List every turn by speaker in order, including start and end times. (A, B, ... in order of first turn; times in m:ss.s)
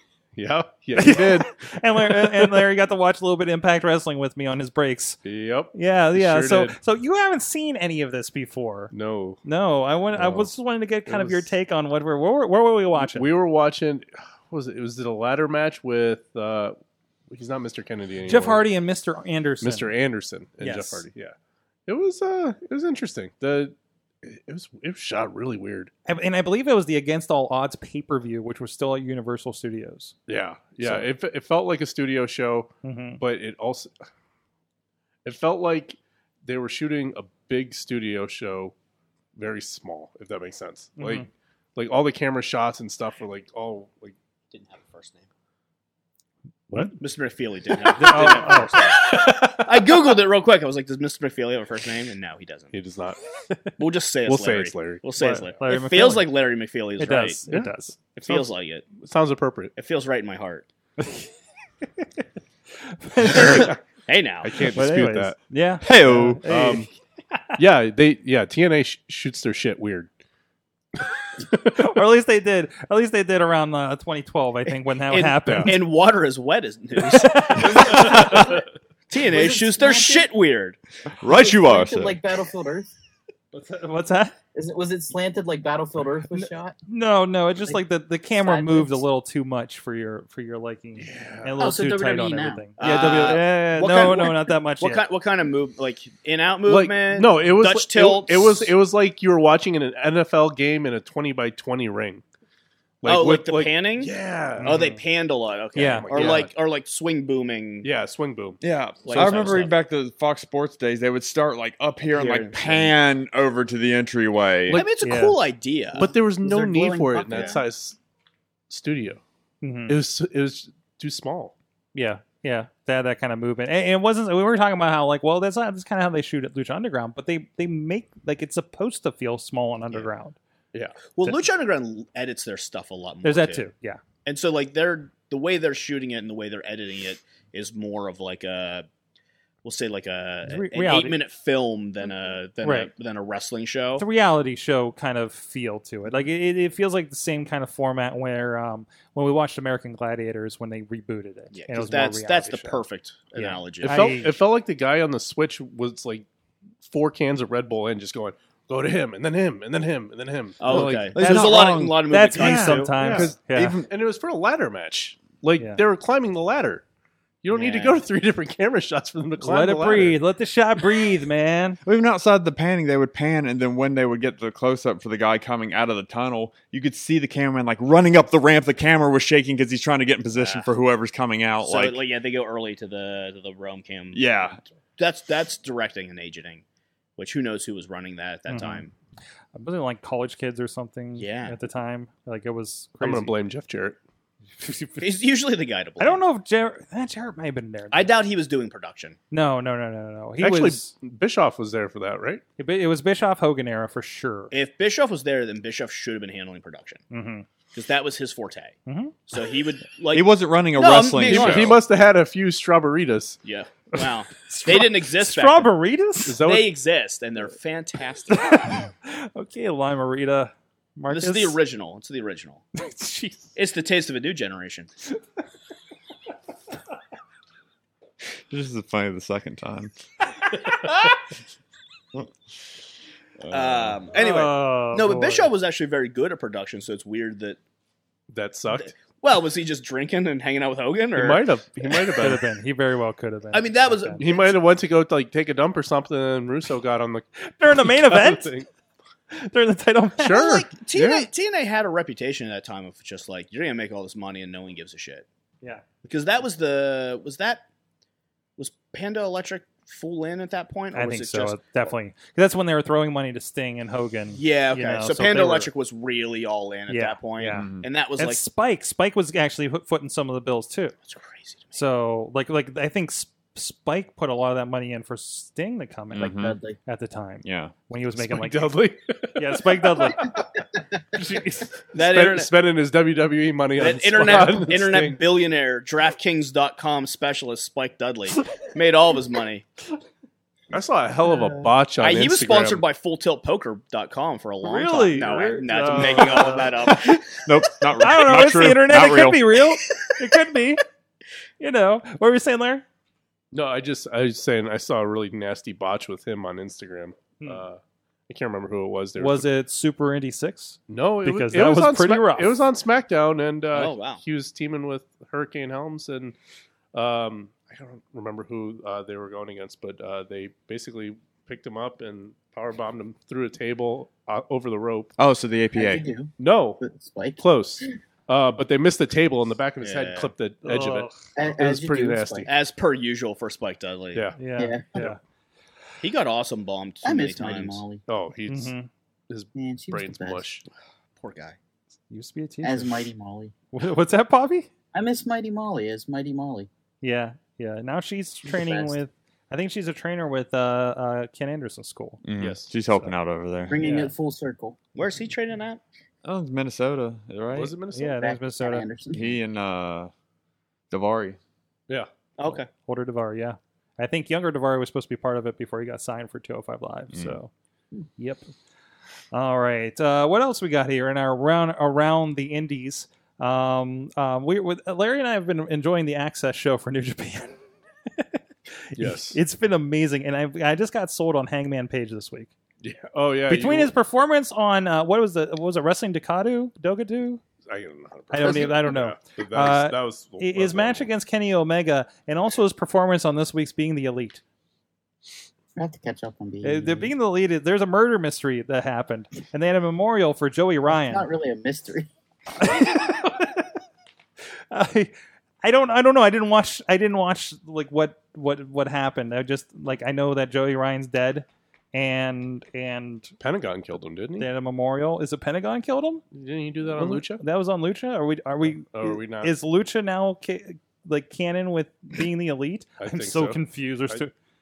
0:00.4-0:02.6 A
0:00.9-0:05.2 B
0:05.2-0:06.8 A
0:05.7-0:08.9 B
0:08.9-0:09.4 A
0:09.4-0:13.3 B
0:10.1-0:10.5 A
0:11.1-0:11.5 A
0:13.0-0:16.8 A
0:17.3-0:18.6 A
0:18.2-0:19.9 B
0:19.6-0:21.3 A
0:20.6-0:21.1 B
0:21.9-0:25.9 A
0:26.1-0:30.1 B
0:30.3-0:33.9 A
0:30.8-0:31.1 B
0:32.8-0:33.2 B
0:35.2-0:38.7 A
0:39.4-0:44.1 A
0:41.0-0:41.3 B
0:44.5-0:45.3 C
0:47.0-0:52.7 C
0:48.0-0:48.8 B
0:48.0-0:48.3 A
0:49.1-0:49.6 A
0:52.7-0:53.2 A
0:53.8-0:57.4 C
0:54.2-0:55.0 A
0:55.2-0:56.3 B
0:57.0-0:57.9 B
0:58.1-0:58.9 C
0:58.3-0:59.7 A
0:59.8-1:00.7 C
1:02.9-1:03.8 B
1:03.2-1:03.8 A
1:04.1-1:04.7 C
1:04.4-1:05.4 A
1:04.7-1:06.9 B
1:05.8-1:06.4 D
1:06.4-1:06.9 A
1:07.6-1:10.1 A
1:11.5-1:11.9 A
1:11.7-1:15.8 B
1:15.1-1:20.8 C
1:15.4-1:15.7 A
1:17.0-1:18.4 B
1:19.3-1:20.3 E
1:21.2-1:22.2 D
1:21.2-1:22.9 E
1:23.5-1:24.3 B
1:24.5-1:26.8 E
1:26.3-1:35.0 B
1:28.4-1:29.0 E
1:31.0-1:31.6 A
1:31.6-1:32.6 E
1:32.8-1:38.7 C
1:36.6-1:42.2 A
1:43.0-1:44.8 A
1:43.0-1:47.9 C
1:44.6-1:45.0 B
1:45.7-1:46.4 B
1:45.9-1:46.5 A
1:47.8-1:48.6 A
1:48.6-1:54.8 D
1:49.0-1:49.7 C
1:52.1-1:53.0 C
1:54.7-1:56.1 C
1:55.0-1:55.4 B
1:56.0-1:58.0 A
1:56.0-1:57.6 E
1:57.3-1:57.6 C
1:58.7-1:59.2 A
1:59.6-2:00.0 B
1:59.9-2:01.5 A
2:01.9-2:10.4 B
2:10.7-2:11.0 A
2:11.1-2:13.6 C
2:13.2-2:14.0 B
2:14.2-2:18.9 C
2:19.6-2:24.0 C
2:20.5-2:21.2 B
2:22.6-2:22.9 B
2:24.0-2:32.8 B
2:31.5-2:34.2 C
2:33.3-2:34.3 B
2:33.8-2:36.2 A
2:36.8-2:41.1 A
2:40.6-2:43.0 C
2:40.7-2:43.9 D
2:41.2-2:43.8 B
2:42.4-2:43.3 A
2:43.9-2:46.8 A
2:47.4-2:50.2 A
2:47.5-2:48.0 C
2:49.4-2:51.8 B
2:51.8-3:02.0 D
3:00.3-3:00.7 C
3:01.6-3:04.3 C
3:04.1-3:04.6 D
3:05.0-3:06.6 C
3:07.2-3:08.9 C
3:08.5-3:08.8 B
3:09.5-3:13.3 B
3:11.2-3:11.6 C
3:13.0-3:14.0 A
3:14.6-3:15.0 B
3:15.0-3:16.2 C
3:16.0-3:18.2 B
3:17.9-3:19.2 C
3:19.3-3:20.9 B
3:20.4-3:22.4 A
3:22.6-3:24.5 B
3:24.5-3:27.0 C
3:27.1-3:27.4 B
3:27.7-3:28.8 C
3:28.8-3:29.1 B
3:29.3-3:31.8 C
3:30.1-3:31.8 D
3:31.2-3:33.4 A
3:33.4-3:35.7 C
3:33.9-3:36.4 B
3:36.2-3:36.7 A
3:36.4-3:38.8 C
3:38.5-3:41.6 B
3:41.1-3:42.6 C
3:42.7-3:43.5 B
3:43.5-3:44.9 C
3:48.5-3:49.9 D
3:53.4-3:54.0 D
3:53.5-3:57.6 C
3:54.1-3:55.5 B
3:58.3-3:58.9 A
3:58.7-4:01.5 C
4:01.1-4:02.4 A
4:02.2-4:04.2 B
4:03.5-4:04.6 C
4:04.2-4:08.7 A
4:07.4-4:08.5 B
4:09.3-4:10.6 B
4:10.2-4:11.3 A
4:10.3-4:15.2 C
4:16.0-4:17.6 C
4:18.6-4:21.6 C
4:20.9-4:25.7 B
4:24.4-4:28.4 C
4:26.9-4:30.9 B
4:27.6-4:27.8 D
4:31.0-4:31.8 C
4:31.7-4:38.8 B
4:36.1-4:36.6 D
4:36.2-4:36.8 E
4:37.4-4:37.7 D
4:38.2-4:40.4 A
4:39.4-4:40.3 B
4:41.2-4:41.7 B
4:41.9-4:42.5 C
4:41.9-4:45.2 A
4:43.8-4:49.6 C
4:44.2-4:44.5 B
4:50.7-4:52.8 A
4:52.0-4:57.4 C
4:54.6-4:56.8 B
4:55.9-4:59.4 D
4:58.0-5:00.8 B
5:01.6-5:02.8 B
5:03.5-5:09.5 A
5:09.2-5:12.6 B
5:10.9-5:16.3 A
5:13.7-5:14.2 C
5:16.9-5:25.1 A
5:25.2-5:26.1 D
5:25.7-5:27.4 E
5:26.4-5:26.8 A
5:27.4-5:32.5 A
5:29.8-5:30.3 C
5:30.6-5:31.2 B
5:31.4-5:32.5 E
5:32.5-5:34.3 C
5:34.4-5:35.2 B
5:34.6-5:35.1 E
5:36.0-5:37.8 C
5:37.0-5:38.0 E
5:38.0-5:38.7 A
5:38.5-5:38.9 B
5:39.3-5:40.6 A
5:39.5-5:40.4 E
5:41.2-5:41.6 C
5:42.1-5:43.0 B
5:42.6-5:43.5 E
5:43.7-5:44.7 B
5:44.9-5:46.7 E
5:47.0-5:52.2 B
5:48.4-5:49.0 E
5:52.2-5:53.8 D
5:52.4-5:52.7 A
5:53.7-5:54.8 E
5:53.8-5:54.1 B
5:55.0-5:55.8 C
5:56.2-5:57.7 D
5:57.5-5:58.2 A
5:57.9-5:58.8 B
5:58.2-5:59.4 E
5:59.1-6:00.1 D
6:00.9-6:01.4 D
6:02.4-6:02.7 C
6:02.9-6:07.5 B
6:08.2-6:08.4 B
6:09.3-6:17.6 B
6:18.1-6:22.5 B
6:19.0-6:19.4 A
6:22.8-6:23.9 A
6:23.5-6:27.4 B
6:27.6-6:31.1 A
6:28.3-6:34.4 B
6:28.4-6:28.7 E
6:35.8-6:37.1 E
6:36.6-6:41.3 B
6:40.9-6:42.1 E
6:42.6-6:43.6 B
6:44.7-6:45.1 B
6:45.6-6:53.3 B
6:53.4-6:54.5 A
6:54.4-6:56.2 B
6:56.3-6:57.4 A
6:56.8-7:04.3 B
6:58.6-6:59.5 A
7:03.0-7:04.2 A